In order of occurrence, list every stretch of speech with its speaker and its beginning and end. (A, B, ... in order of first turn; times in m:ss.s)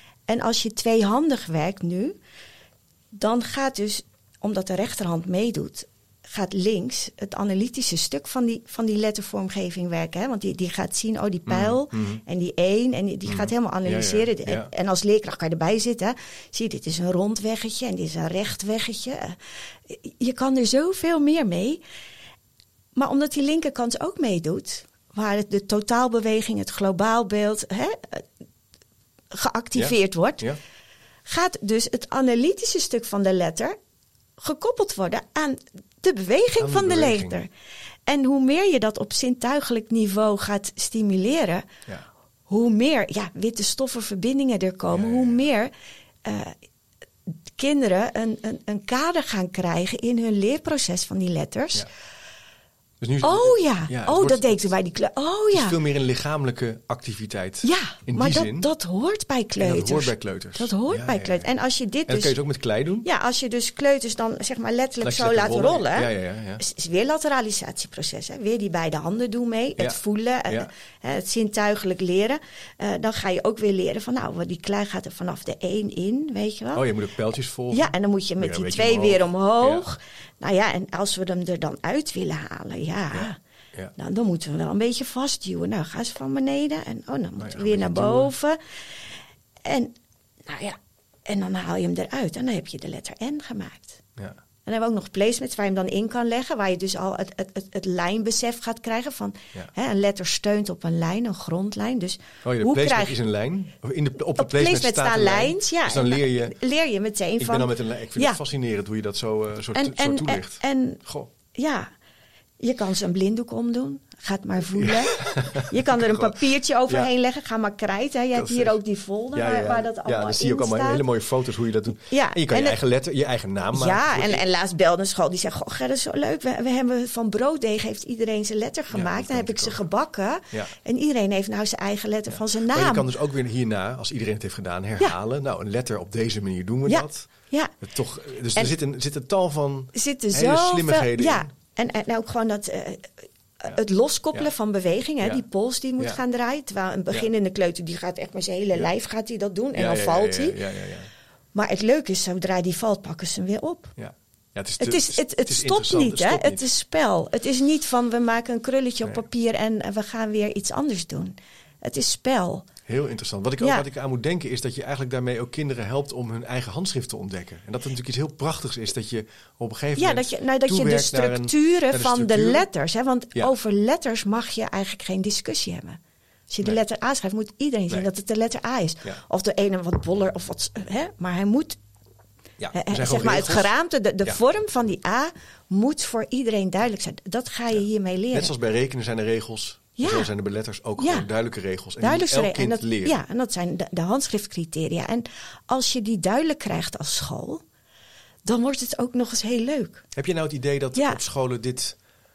0:00.3-0:02.2 A
0:03.1-0:21.8 A
0:11.5-0:12.2 B
0:13.3-0:14.7 B
0:23.0-0:28.3 A
0:29.3-0:30.5 A
0:29.8-0:30.6 B
0:31.3-0:33.8 A
0:34.4-0:37.5 A
0:36.6-0:37.4 B
0:38.1-0:41.7 A
0:42.5-0:45.7 A
0:44.9-0:45.4 B
0:46.2-0:46.6 A
0:47.3-0:51.9 A
0:53.0-0:54.7 B
0:53.2-0:55.8 A
0:55.5-0:58.7 B
0:57.6-1:02.4 A
0:59.6-1:01.5 B
1:02.1-1:03.1 B
1:03.0-1:16.9 A
1:05.0-1:06.6 B
1:09.8-1:10.7 B
1:16.7-1:19.9 B
1:17.7-1:23.4 A
1:23.1-1:23.9 B
1:24.0-1:29.0 A
1:27.4-1:28.3 B
1:29.6-1:34.0 A
1:34.7-1:43.2 A
1:42.4-1:46.6 B
1:44.4-1:48.4 A
1:47.4-1:51.3 B
1:49.7-1:51.0 A
1:51.5-1:51.9 A
1:52.6-2:01.0 A
1:54.8-1:57.1 B
1:58.3-1:58.8 B
1:59.3-2:04.4 B
2:02.1-2:02.8 A
2:03.7-2:13.1 A
2:08.9-2:09.8 B
2:12.6-2:17.3 B
2:16.9-2:17.7 A
2:17.8-2:21.5 B
2:19.9-2:30.6 A
2:29.8-2:31.1 B
2:31.5-2:34.0 A
2:34.0-2:36.6 B
2:34.8-2:42.7 A
2:42.9-2:52.7 B
2:43.6-2:43.8 A
2:50.0-3:01.8 A
3:02.6-3:03.7 B
3:02.7-3:08.5 A
3:08.3-3:13.2 B
3:10.0-3:10.3 A
3:11.0-3:11.3 A
3:12.0-3:17.6 A
3:18.4-3:20.1 A
3:20.1-3:22.0 B
3:21.0-3:21.2 A